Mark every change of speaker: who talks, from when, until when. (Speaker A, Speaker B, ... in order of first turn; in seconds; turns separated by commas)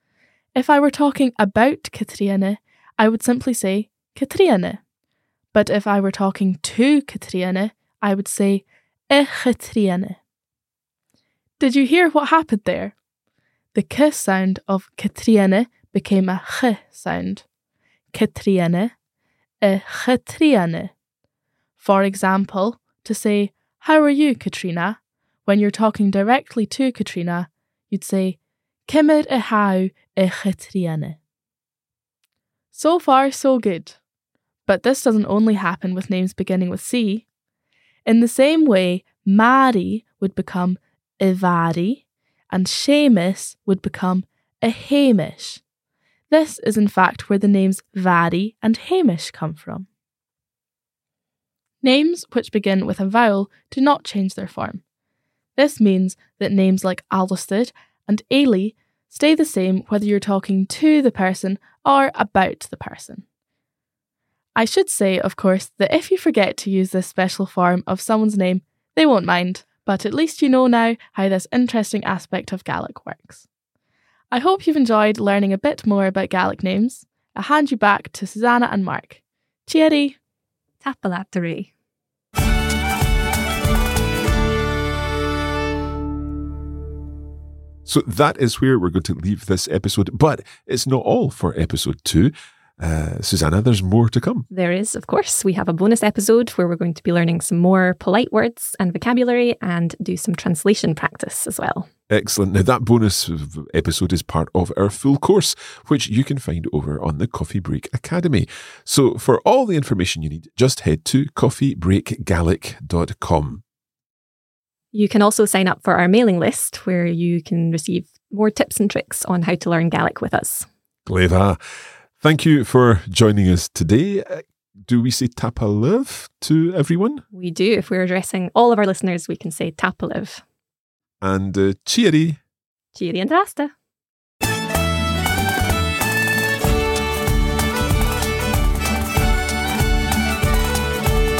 Speaker A: 0.5-4.8, Speaker A: 5.5-10.2, Speaker A: 11.6-12.9, Speaker A: 13.7-17.4, Speaker A: 18.1-18.9, Speaker A: 19.6-20.9, Speaker A: 21.8-31.2, Speaker A: 32.7-34.0, Speaker A: 34.6-37.2, Speaker A: 38.0-45.6, Speaker A: 46.3-49.9, Speaker A: 51.8-54.8, Speaker A: 55.5-63.2, Speaker A: 64.5-73.4, Speaker A: 74.3-80.2, Speaker B: 80.8-81.7, Speaker C: 87.8-94.5, Speaker B: 94.5-101.9, Speaker C: 102.1-113.6, Speaker B: 114.9-120.7, Speaker C: 121.0-121.6, Speaker C: 122.2-127.2, Speaker B: 127.3-130.4, Speaker C: 131.2-132.4, Speaker B: 132.9-133.7